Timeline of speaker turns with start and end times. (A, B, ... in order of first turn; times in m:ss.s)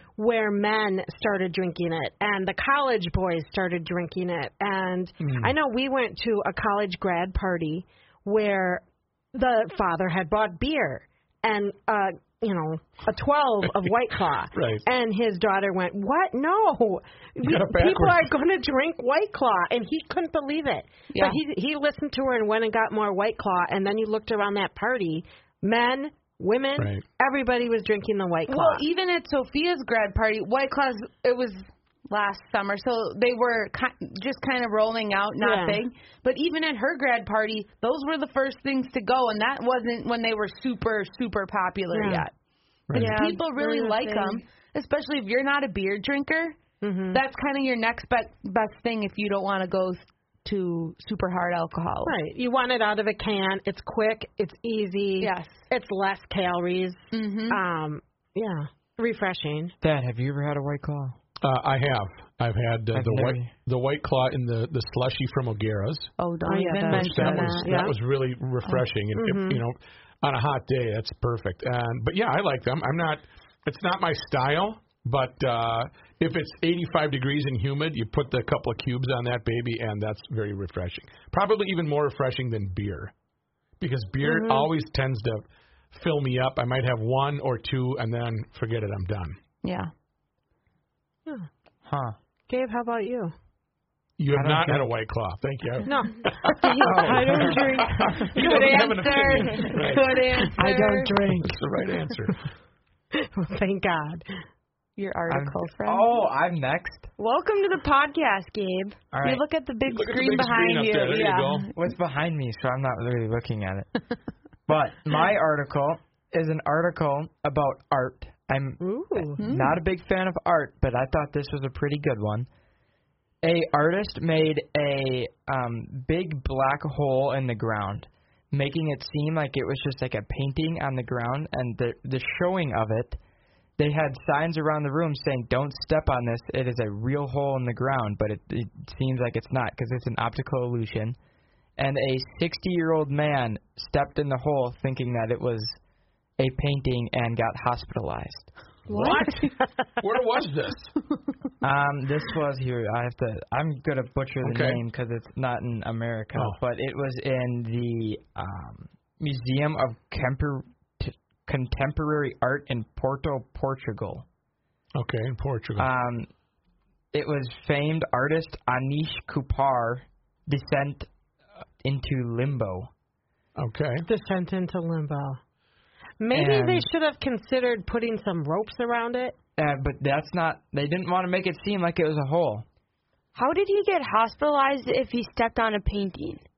0:00.2-0:28.8 A
0:05.2-0:05.5 B
0:14.5-0:14.8 B
0:17.4-0:18.3 B
0:21.1-0:21.4 C
0:26.8-0:27.0 B
0:28.5-0:42.3 C
0:35.4-0:35.8 A
0:41.9-0:42.2 A
0:42.9-0:43.2 B
0:42.9-0:46.6 C
0:42.9-0:44.4 D
0:46.8-0:47.2 A
0:47.1-0:52.1 C
0:52.0-0:59.7 A
0:55.2-0:55.6 C
0:57.1-0:57.6 C
0:59.8-1:01.2 E
1:01.4-1:06.1 B
1:02.9-1:03.5 E
1:06.2-1:07.9 C
1:06.4-1:07.9 A
1:06.9-1:23.1 B
1:09.1-1:09.6 A
1:23.8-1:29.4 B
1:24.2-1:24.6 A
1:29.6-1:29.9 C
1:31.8-1:32.2 E
1:32.5-1:33.3 A
1:34.2-1:42.4 B
1:34.3-1:34.9 E
1:35.8-1:36.3 A
1:36.6-1:38.0 D
1:36.8-1:37.8 E
1:37.3-1:41.2 C
1:40.6-1:41.4 E
1:40.6-1:41.4 A
1:43.1-1:44.3 A
1:45.0-1:46.1 C
1:45.3-1:47.1 E
1:47.2-1:49.1 D
1:49.1-1:49.4 E
1:49.2-1:51.7 C
1:49.8-1:51.7 B
1:51.7-1:53.9 E
1:54.7-2:02.5 E
1:58.8-1:59.4 A
1:59.4-1:59.8 C
2:03.4-2:13.2 E
2:13.8-2:21.2 E
2:21.8-2:25.8 E
2:26.4-2:28.5 E
2:28.9-2:30.9 B
2:31.6-2:44.2 E
2:34.4-2:34.8 B
2:45.0-2:45.9 B
2:45.8-2:46.3 E
2:47.1-2:51.1 E
2:51.8-2:52.9 E
2:53.6-2:54.0 B
2:54.1-2:55.4 A
2:56.2-2:59.4 A
2:56.3-2:56.9 E
2:59.6-3:02.6 E
3:03.3-3:06.4 D